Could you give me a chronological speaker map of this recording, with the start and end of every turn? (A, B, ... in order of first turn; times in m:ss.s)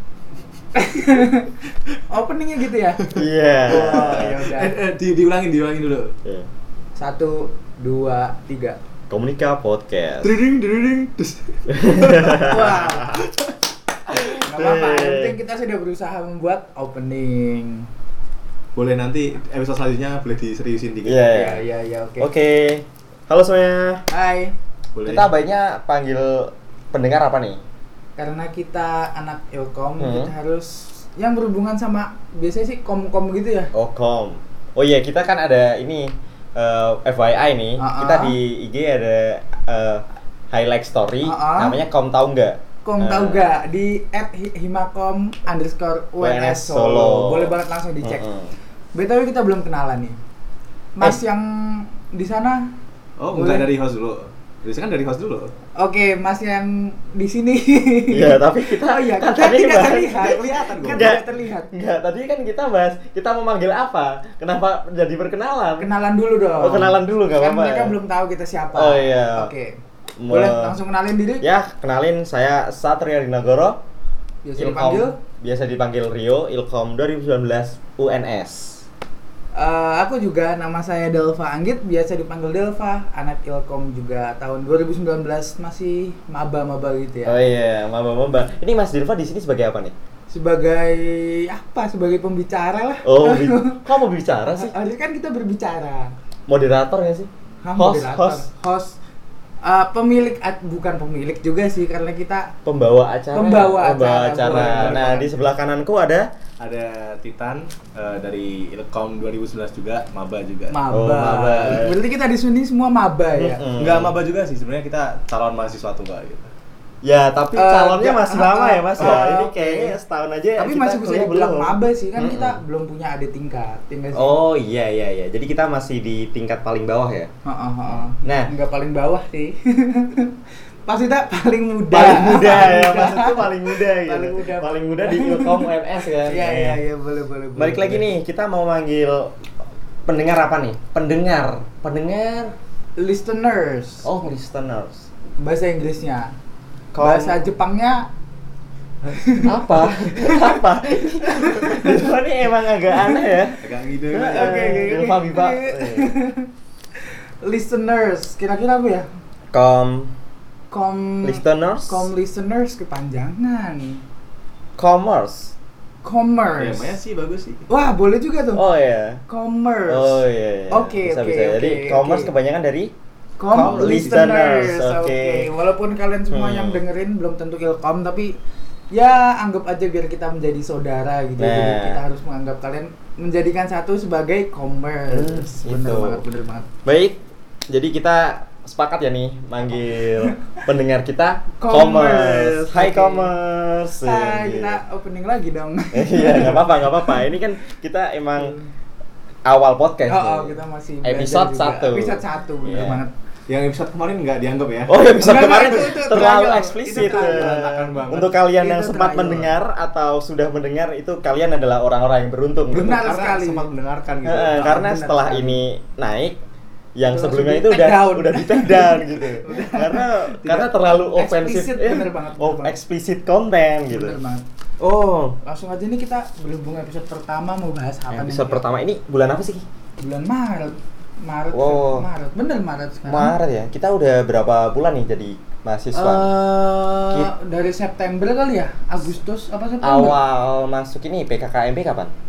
0:00.8-0:01.5 A
0:02.1-0:03.0 A
0:03.1-0:04.4 B
0:03.7-0:04.8 A
0:03.7-0:06.2 C
0:07.0-0:08.8 A
0:09.1-0:10.4 B
0:10.2-0:12.4 C
0:11.7-0:13.1 B
0:12.3-0:13.3 A
0:14.1-0:15.3 B
0:14.3-0:17.9 A
0:18.8-0:21.3 C
0:21.0-0:21.6 B
0:21.3-0:22.3 A
0:22.2-0:24.0 B
0:24.1-0:24.5 A
0:25.0-0:25.3 C
0:25.1-0:27.6 B
0:28.2-0:33.7 A
0:30.0-0:30.3 B
0:33.7-0:43.4 B
0:37.8-0:38.4 A
0:41.2-0:41.8 A
0:42.8-0:48.3 A
0:46.2-0:48.5 B
0:49.0-0:50.2 A
0:51.0-0:52.7 A
0:53.2-0:55.5 C
0:53.3-0:53.7 A
0:55.8-1:01.7 A
0:58.1-1:05.9 B
1:00.1-1:01.2 C
1:05.8-1:09.8 A
1:06.6-1:07.9 B
1:08.7-1:09.5 B
1:10.2-1:10.8 B
1:10.3-1:11.4 A
1:11.4-1:13.8 B
1:14.4-1:15.2 A
1:14.6-1:18.8 B
1:19.6-1:27.4 A
1:27.2-1:29.9 B
1:30.3-1:33.8 A
1:33.0-1:34.7 B
1:34.5-1:36.2 A
1:36.5-1:38.5 B
1:37.6-1:39.0 A
1:39.6-1:42.5 A
1:42.6-1:46.3 B
1:43.3-1:45.3 A
1:44.6-1:45.1 C
1:46.6-1:51.9 C
1:50.7-1:53.6 A
1:50.9-1:52.0 B
1:53.4-1:54.1 B
1:53.8-1:56.5 C
1:57.0-2:02.6 B
1:57.6-1:59.9 A
2:00.6-2:04.4 A
2:04.1-2:07.3 B
2:07.4-2:10.4 A
2:07.9-2:08.5 B
2:10.9-2:15.7 A
2:11.9-2:16.8 B
2:16.2-2:18.0 A
2:17.6-2:19.4 B
2:20.1-2:22.6 B
2:23.0-2:24.1 A
2:24.0-2:25.1 B
2:25.4-2:26.3 A
2:26.9-2:27.4 B
2:27.0-2:28.1 A
2:29.1-2:30.6 A
2:29.4-2:36.1 B
2:31.6-2:32.0 A
2:33.6-2:34.8 C
2:34.2-2:36.5 A
2:37.4-2:39.1 A
2:39.5-2:40.1 B
2:40.7-2:44.0 A
2:41.2-2:42.1 B
2:44.8-2:45.5 B
2:46.0-2:46.9 A
2:46.6-2:47.7 C
2:47.7-2:48.6 A
2:48.6-2:49.2 B
2:49.3-2:52.3 A
2:49.9-2:52.9 B
2:53.4-2:58.4 A
2:53.5-2:54.6 C
2:53.5-2:55.5 B
2:56.3-2:56.8 B
2:58.9-3:06.7 A
3:01.4-3:02.0 B
3:05.1-3:06.2 B
3:06.8-3:14.8 B
3:10.1-3:10.4 A
3:11.6-3:13.3 A
3:14.0-3:17.4 A
3:15.9-3:18.6 B
3:18.4-3:18.7 A
3:19.5-3:23.0 B
3:20.1-3:23.1 A
3:23.5-3:25.9 C
3:24.9-3:33.0 B
3:25.2-3:27.5 A
3:26.9-3:28.4 C
3:28.6-3:29.5 A
3:32.7-3:33.7 A
3:32.8-3:34.8 C
3:34.2-3:36.4 B
3:34.5-3:35.6 A
3:37.0-3:44.2 B
3:37.1-3:42.7 A
3:43.9-3:44.4 A
3:44.8-3:45.4 B
3:45.4-3:48.6 A
3:48.1-3:49.6 B
3:50.0-3:53.4 A
3:51.5-3:52.1 B
3:53.1-3:56.3 B
3:55.9-4:00.2 A
3:59.8-4:02.1 B